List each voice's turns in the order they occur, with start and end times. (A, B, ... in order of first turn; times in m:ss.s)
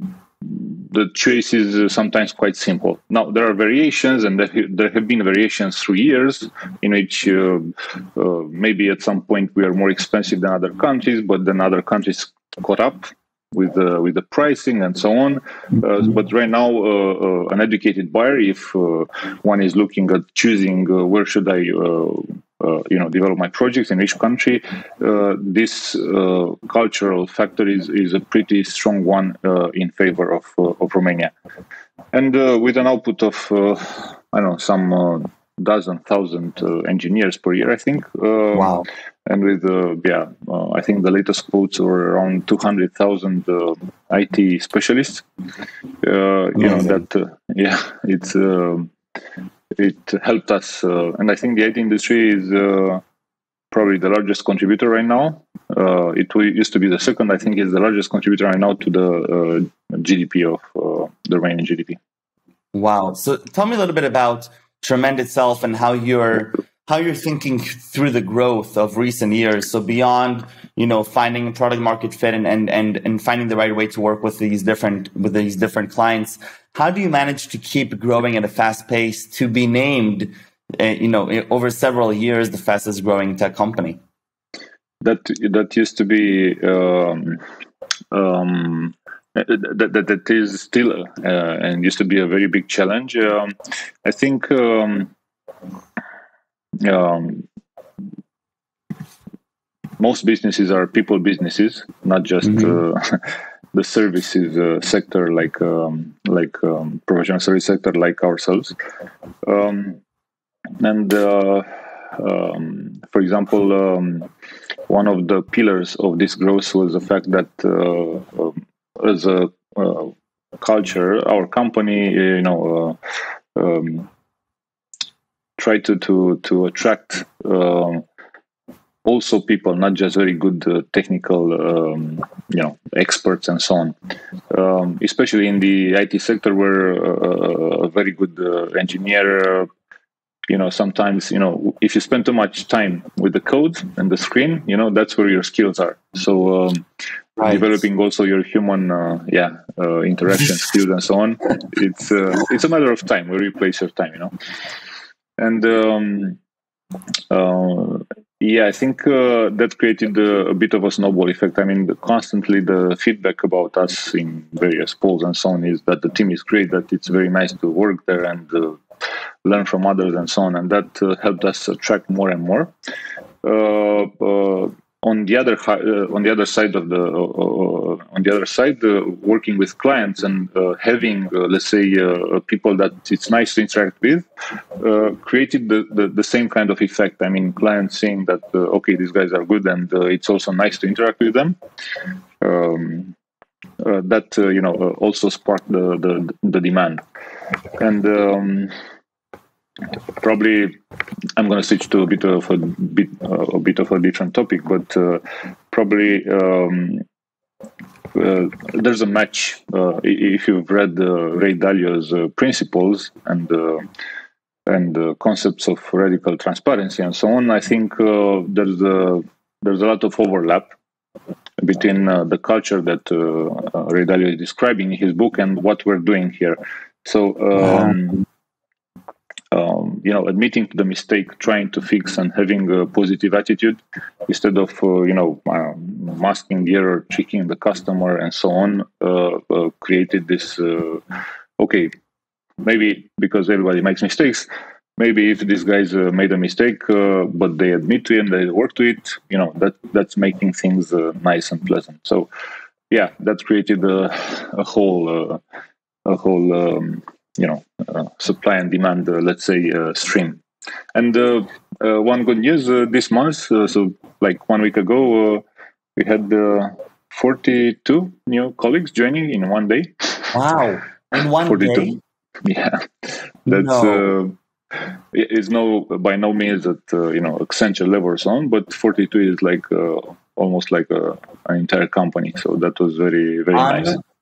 0:00.4-0:31.3 A
0:32.1-0:45.2 A
0:38.5-0:38.8 B
0:46.0-0:48.9 A
0:46.6-0:47.0 B
0:49.7-0:53.0 A
0:53.7-1:02.0 A
1:02.7-1:24.0 B
1:25.0-1:27.4 A
1:28.1-1:33.5 A
1:34.0-1:35.1 A
1:36.8-1:37.4 A
1:40.0-1:43.2 A
1:42.4-1:42.8 B
1:43.7-1:48.7 A
1:49.4-1:50.0 A
1:50.8-1:54.3 A
1:54.9-2:03.0 A
2:03.6-2:04.1 A
2:05.6-2:08.0 A
2:09.0-2:13.9 A
2:14.5-2:19.7 A
2:20.5-2:26.8 A
2:27.4-2:27.7 B
2:27.4-2:34.3 A
2:35.4-2:36.4 A
2:37.3-2:48.8 A
2:49.4-2:52.7 A
2:53.4-3:04.2 A
3:04.8-3:11.6 A
3:12.4-3:13.1 A
3:13.8-3:17.0 A
3:17.8-3:18.7 A
3:20.2-3:20.8 A
3:21.4-3:27.0 A
3:28.1-3:33.9 A
3:34.6-3:40.7 A
3:41.6-3:48.2 A
3:47.6-3:48.0 B
3:49.5-4:01.0 A
4:01.6-4:01.9 A
4:02.6-4:12.3 A
4:12.9-4:15.4 A
4:16.0-4:20.4 A
4:20.9-4:25.4 A
4:26.0-4:30.3 A
4:30.3-4:32.0 B
4:31.2-4:34.4 A
4:33.5-4:34.1 B
4:35.1-4:44.0 A
4:43.5-4:44.0 B